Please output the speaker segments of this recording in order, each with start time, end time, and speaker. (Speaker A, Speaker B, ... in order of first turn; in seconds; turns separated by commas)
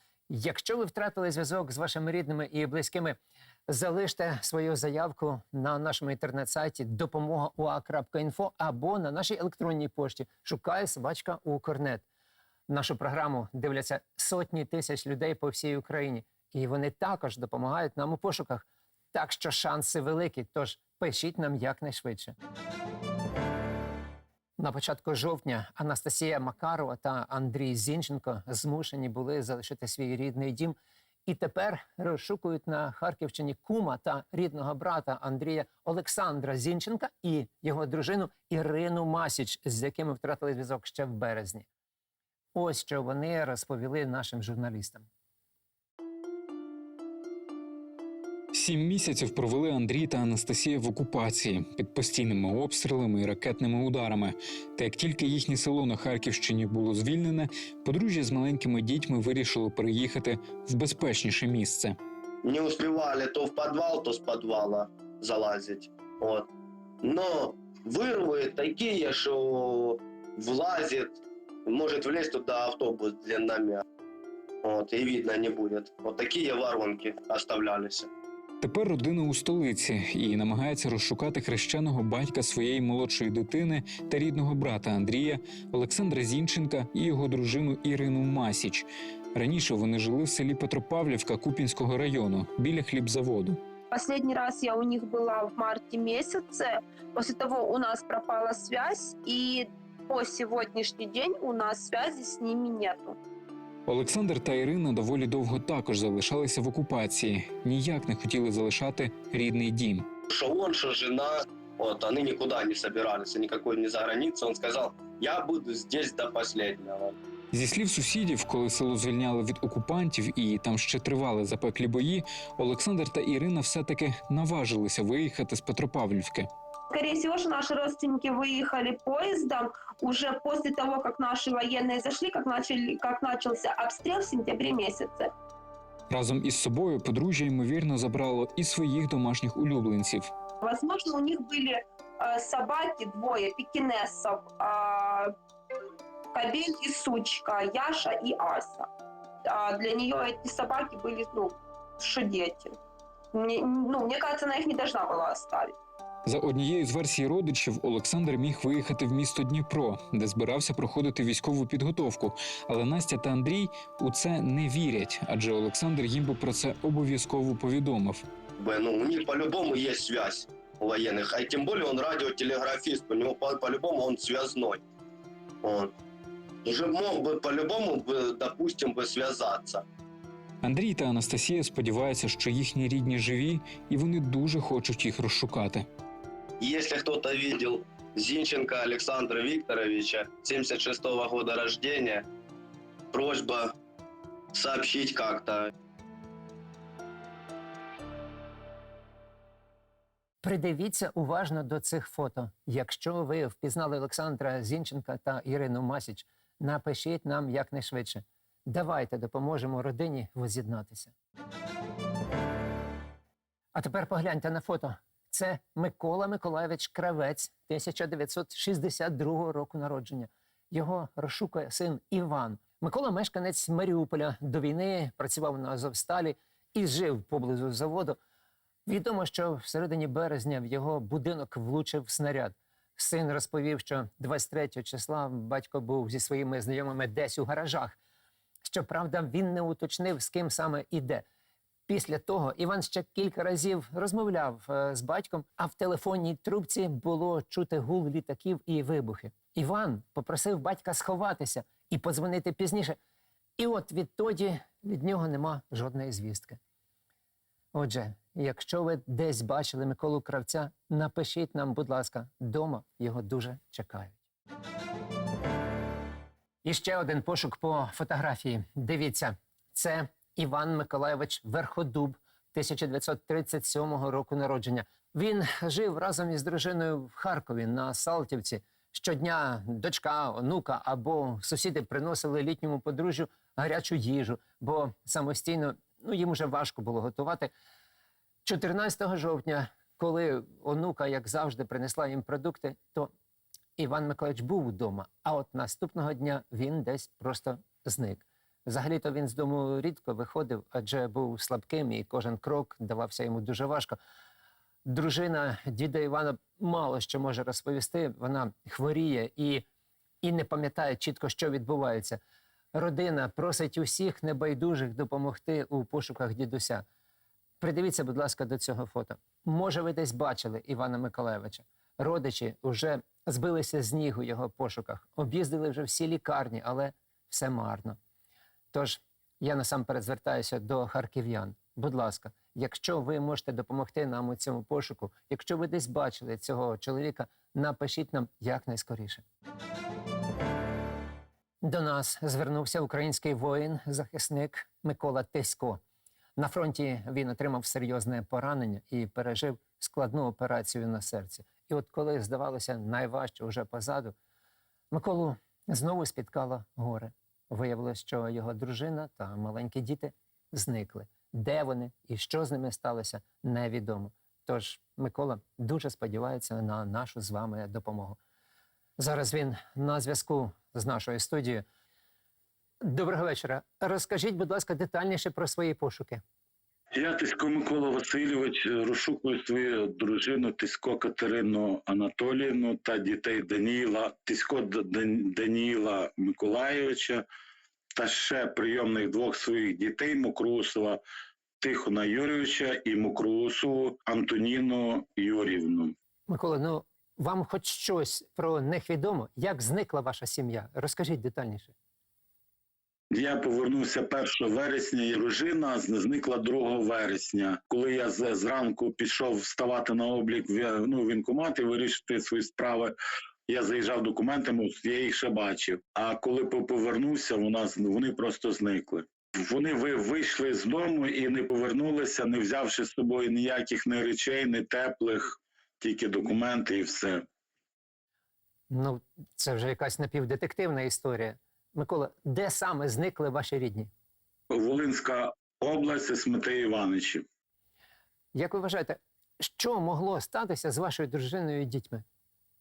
Speaker A: 0.3-3.2, Speaker A: 3.7-12.1, Speaker A: 12.7-22.4, Speaker A: 24.6-41.7, Speaker A: 42.5-45.1, Speaker B: 48.5-62.0, Speaker C: 62.4-66.5, Speaker C: 67.0-73.8, Speaker C: 74.6-78.1, Speaker B: 78.6-93.6, Speaker D: 93.9-103.2, Speaker B: 103.9-110.1, Speaker C: 110.3-117.2, Speaker B: 117.5-126.5, Speaker D: 126.9-135.3, Speaker B: 136.1-140.3, Speaker D: 140.6-145.3, Speaker D: 146.3-148.9, Speaker D: 149.4-152.8, Speaker D: 153.3-155.8, Speaker B: 156.2-168.2, Speaker C: 168.6-174.8, Speaker C: 175.6-175.9, Speaker C: 176.6-179.8, Speaker B: 180.6-185.9, Speaker C: 186.6-192.3, Speaker C: 193.1-193.8, Speaker C: 194.5-195.7, Speaker A: 200.4-211.1, Speaker A: 213.7-228.2, Speaker A: 228.9-238.0, Speaker A: 238.6-241.2, Speaker A: 241.9-253.0, Speaker A: 253.6-256.6, Speaker A: 257.7-264.2, Speaker A: 266.6-287.5, Speaker A: 288.4-293.1, Speaker A: 293.8-304.0, Speaker A: 304.9-309.6, Speaker A: 310.2-312.2, Speaker A: 312.7-316.8, Speaker A: 317.6-328.0, Speaker A: 328.7-339.2, Speaker A: 341.6-345.8, Speaker A: 346.4-354.1, Speaker A: 354.9-368.2, Speaker A: 369.0-371.6, Speaker A: 372.8-376.2, Speaker E: 376.9-387.2, Speaker E: 387.9-391.0, Speaker E: 391.6-395.9, Speaker A: 396.3-401.7, Speaker E: 403.1-412.9, Speaker E: 413.5-427.2, Speaker A: 428.7-433.9, Speaker E: 434.5-437.2, Speaker A: 438.3-442.0